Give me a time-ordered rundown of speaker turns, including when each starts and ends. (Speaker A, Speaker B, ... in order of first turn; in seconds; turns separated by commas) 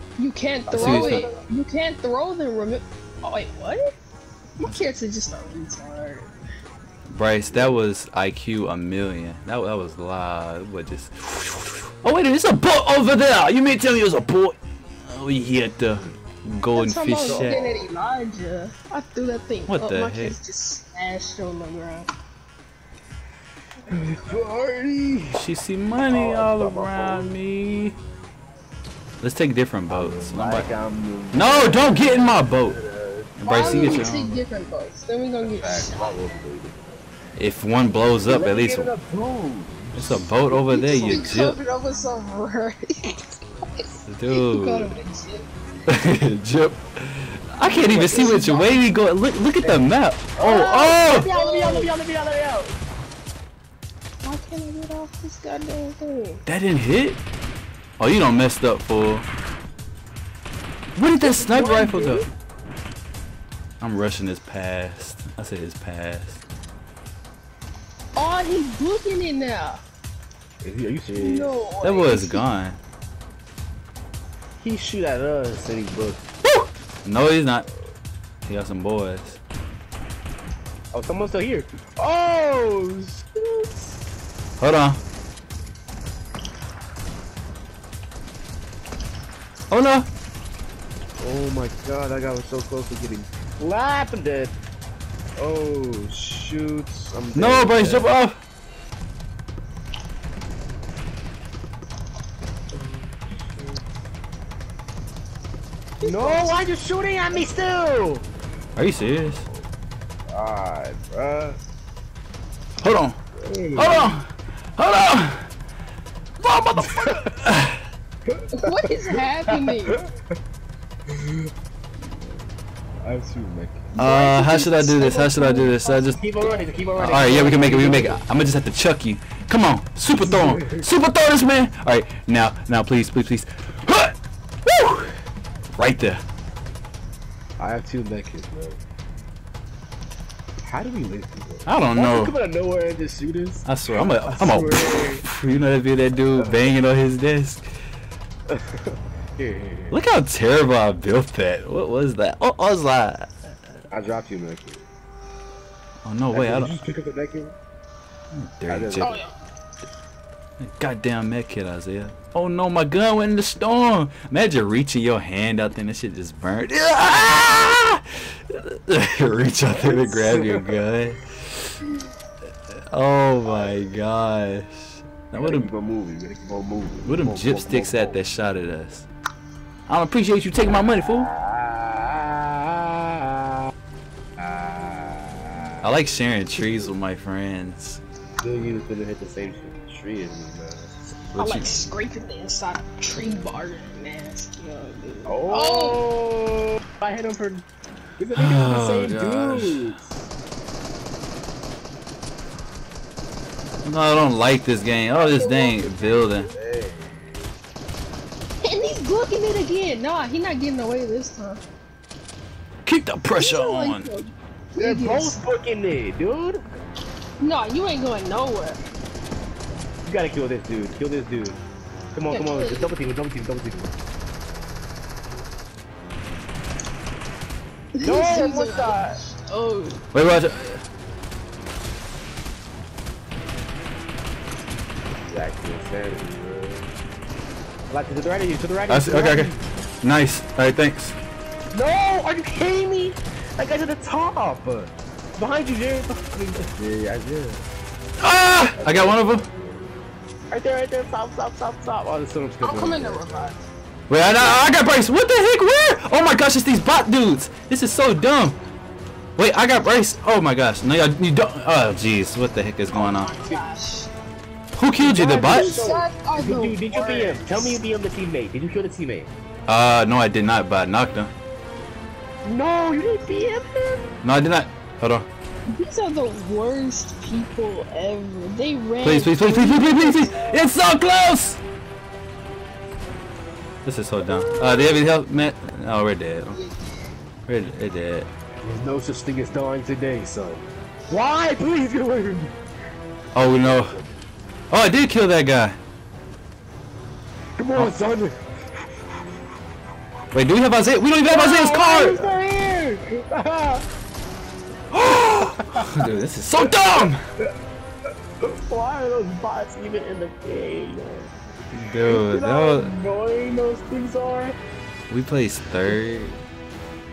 Speaker A: 0.2-3.9, Speaker B: 0.7-1.4, Speaker C: 0.7-1.2, Speaker A: 4.6-6.3, Speaker C: 7.1-17.6, Speaker B: 7.5-7.8, Speaker A: 16.7-22.1, Speaker B: 17.1-17.9, Speaker C: 19.7-20.4, Speaker B: 23.9-25.4, Speaker C: 25.3-28.0, Speaker B: 26.0-27.4, Speaker C: 29.2-30.7, Speaker B: 29.9-34.1, Speaker C: 31.3-32.8, Speaker C: 33.4-34.3, Speaker A: 33.4-36.2, Speaker B: 35.4-37.0, Speaker C: 37.4-38.9, Speaker B: 38.3-40.3, Speaker C: 40.0-41.6, Speaker A: 40.5-45.5, Speaker B: 40.9-41.3, Speaker C: 44.1-44.9, Speaker C: 45.9-51.3, Speaker B: 47.7-48.4, Speaker A: 47.8-48.9, Speaker B: 49.6-52.7, Speaker A: 51.3-51.9, Speaker A: 54.2-56.4, Speaker C: 56.5-57.2, Speaker C: 58.0-59.3, Speaker C: 61.0-62.2, Speaker B: 61.2-62.2, Speaker C: 63.8-66.4, Speaker A: 68.2-69.8, Speaker B: 70.6-71.6, Speaker A: 71.1-72.4, Speaker C: 71.8-72.8, Speaker B: 74.6-76.2, Speaker C: 76.4-77.7, Speaker C: 78.4-79.4, Speaker B: 80.9-84.0, Speaker C: 84.6-85.0, Speaker C: 89.7-90.1, Speaker B: 91.2-94.5, Speaker B: 95.4-98.1, Speaker C: 97.3-98.4, Speaker B: 102.7-103.8, Speaker B: 106.0-108.2, Speaker A: 106.0-106.6, Speaker C: 108.8-109.4, Speaker B: 110.3-111.6, Speaker C: 112.8-113.2, Speaker B: 113.4-114.2, Speaker C: 113.7-115.5, Speaker C: 116.4-117.8, Speaker B: 116.8-117.3, Speaker B: 118.3-118.5, Speaker A: 118.5-120.0, Speaker B: 119.5-120.0, Speaker B: 121.1-121.5, Speaker B: 123.0-123.9, Speaker A: 123.9-127.6, Speaker C: 124.0-126.2, Speaker B: 126.2-128.2, Speaker C: 127.0-135.2, Speaker B: 130.2-130.8, Speaker C: 135.8-136.2, Speaker B: 137.6-138.8, Speaker B: 140.6-145.2, Speaker C: 141.7-142.3, Speaker C: 143.7-147.6, Speaker B: 148.5-149.9, Speaker C: 149.9-153.3, Speaker B: 153.9-154.8, Speaker C: 156.0-156.7, Speaker B: 156.3-157.5, Speaker C: 158.3-159.2, Speaker B: 158.7-159.2, Speaker A: 159.0-159.3, Speaker C: 160.6-171.8, Speaker B: 169.7-170.9, Speaker C: 172.7-175.7, Speaker B: 173.5-173.9, Speaker B: 175.3-178.2, Speaker C: 177.0-179.1, Speaker C: 179.9-181.3, Speaker B: 181.2-183.6, Speaker B: 184.4-185.8, Speaker C: 185.8-188.0, Speaker B: 188.4-190.9, Speaker C: 191.3-191.8, Speaker A: 191.4-196.0, Speaker B: 195.2-197.7, Speaker B: 198.2-200.1, Speaker C: 198.3-200.0, Speaker C: 203.8-206.5, Speaker A: 205.1-205.9, Speaker B: 206.0-207.5, Speaker A: 208.6-211.6, Speaker C: 212.8-214.1, Speaker A: 213.4-215.4, Speaker B: 214.8-216.6, Speaker A: 217.4-218.8, Speaker B: 220.0-221.6, Speaker B: 222.1-223.9, Speaker A: 222.3-222.9, Speaker A: 227.9-230.0, Speaker B: 228.0-229.2, Speaker C: 230.1-230.8, Speaker B: 235.2-236.9, Speaker B: 237.9-239.6, Speaker C: 238.9-241.2, Speaker B: 241.7-247.6, Speaker C: 248.2-249.4, Speaker B: 248.7-249.9, Speaker B: 250.5-253.5, Speaker A: 252.6-253.6, Speaker C: 254.1-258.6, Speaker B: 254.2-254.6, Speaker C: 259.4-263.3, Speaker A: 262.9-264.1, Speaker C: 264.8-265.8, Speaker B: 265.0-269.3, Speaker A: 265.4-267.8, Speaker C: 269.7-271.3, Speaker B: 272.4-274.1, Speaker C: 274.2-275.3, Speaker A: 275.7-280.7, Speaker C: 279.0-281.6, Speaker C: 283.8-286.6, Speaker B: 284.2-285.0, Speaker C: 287.5-288.3, Speaker B: 288.6-292.5, Speaker C: 293.3-294.0, Speaker C: 294.7-295.8, Speaker B: 297.6-298.4, Speaker C: 300.3-302.3, Speaker B: 301.2-303.8, Speaker C: 304.9-307.2, Speaker B: 305.4-307.1, Speaker B: 308.4-311.3, Speaker C: 311.7-312.9, Speaker B: 312.0-314.6, Speaker C: 315.1-316.4